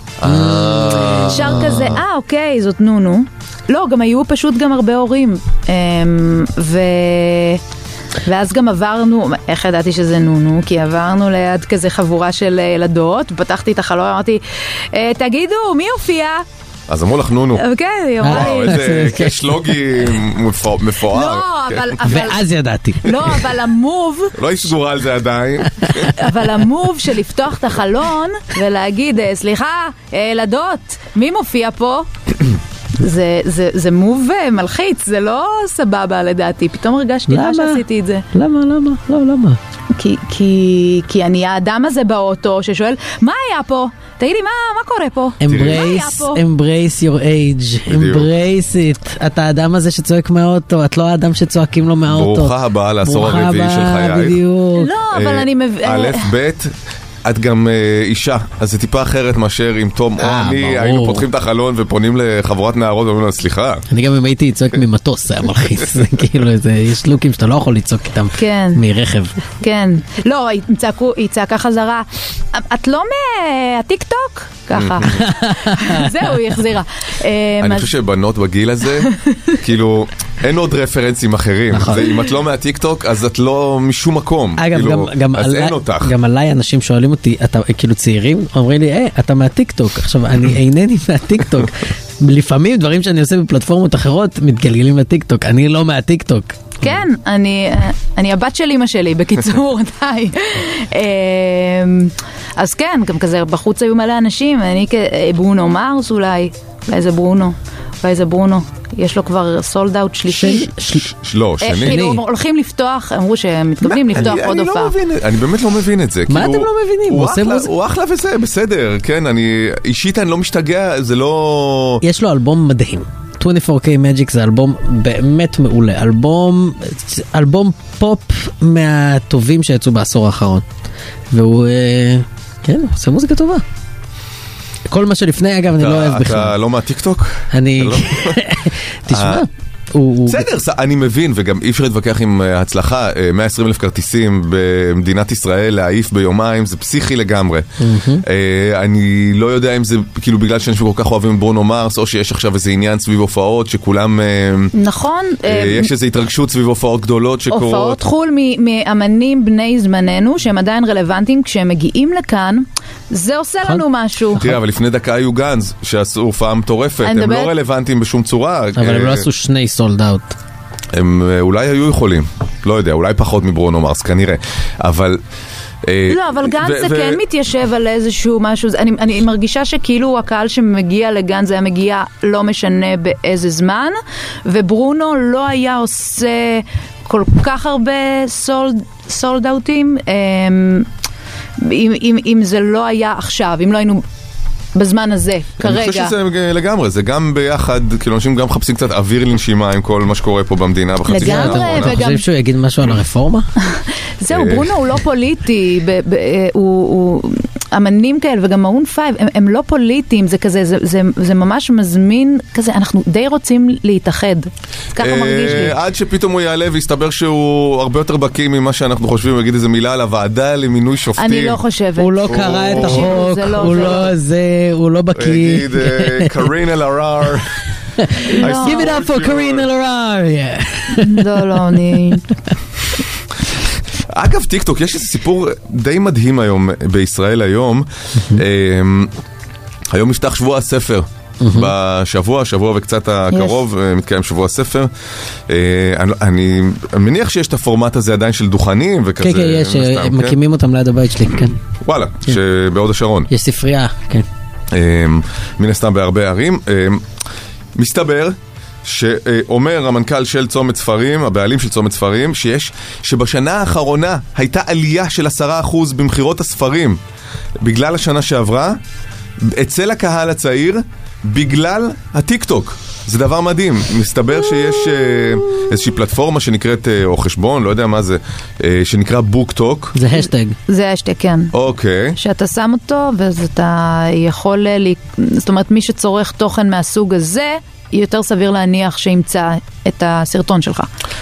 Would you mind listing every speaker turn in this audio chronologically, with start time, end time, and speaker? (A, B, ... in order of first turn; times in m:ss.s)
0:00.2-0:02.0 A
0:00.2-0:01.4 B
0:01.3-0:07.6 C
0:08.2-0:14.4 C
0:14.9-0:16.4 C
0:16.9-0:17.6 A
0:17.6-0:18.9 C
0:18.2-0:19.8 B
0:18.2-0:22.0 A
0:21.1-0:22.4 C
0:22.0-0:23.1 B
0:23.0-0:24.4 C
0:24.4-0:26.1 A
0:26.1-0:32.1 C
0:33.0-0:38.2 C
0:37.3-0:39.6 B
0:39.9-0:46.4 C
0:45.4-0:54.9 B
0:45.5-0:45.8 A
0:47.9-0:48.3 A
0:52.1-0:54.4 A
0:54.8-0:56.3 C
0:55.1-1:03.8 A
1:00.2-1:01.2 B
1:03.9-1:09.4 B
1:08.4-1:08.8 C
1:09.6-1:17.9 C
1:14.7-1:15.2 A
1:15.1-1:16.3 B
1:17.6-1:26.1 A
1:19.0-1:19.5 C
1:21.7-1:22.1 B
1:24.6-1:36.8 B
1:36.8-1:50.7 C
1:50.3-1:51.1 B
1:50.9-1:52.0 A
1:51.6-1:54.9 C
1:51.8-1:52.2 B
1:53.8-2:02.0 A
1:56.3-1:57.7 B
2:02.0-2:10.6 B
2:11.3-2:13.6 B
2:14.9-2:16.5 B
2:15.8-2:18.4 A
2:17.5-2:20.4 B
2:19.1-2:19.5 A
2:20.2-2:27.7 A
2:27.8-2:28.2 B
2:28.2-2:34.7 A
2:34.7-2:35.9 C
2:35.4-2:38.0 A
2:37.5-2:44.5 C
2:44.4-2:49.2 A
2:47.0-2:47.5 C
2:48.8-2:50.4 B
2:50.9-2:55.2 A
2:55.8-2:57.2 A
2:56.1-3:10.9 C
3:11.6-3:14.0 C
3:14.7-3:16.1 C
3:15.6-3:22.0 A
3:21.1-3:22.2 C
3:21.1-3:23.5 B
3:23.6-3:35.8 C
3:24.3-3:24.8 A
3:35.0-3:41.6 A
3:41.2-3:44.1 C
3:42.0-3:46.4 B
3:42.3-3:44.0 A
3:45.1-3:47.5 A
3:48.0-3:51.2 B
3:48.4-3:48.9 C
3:48.4-3:49.7 A
3:51.0-3:52.2 C
3:54.1-3:59.1 A
3:58.2-3:58.4 B
3:59.9-4:04.9 A
4:01.4-4:01.7 B
4:05.5-4:10.4 A
4:09.2-4:11.6 B
4:11.8-4:13.3 A
4:13.3-4:14.3 B
4:14.7-4:17.0 A
4:17.8-4:27.0 A
4:27.6-4:28.8 A
4:29.4-4:40.0 A
4:39.9-4:40.6 B
4:40.7-4:41.5 C
4:41.5-4:42.2 A
4:42.2-4:50.9 C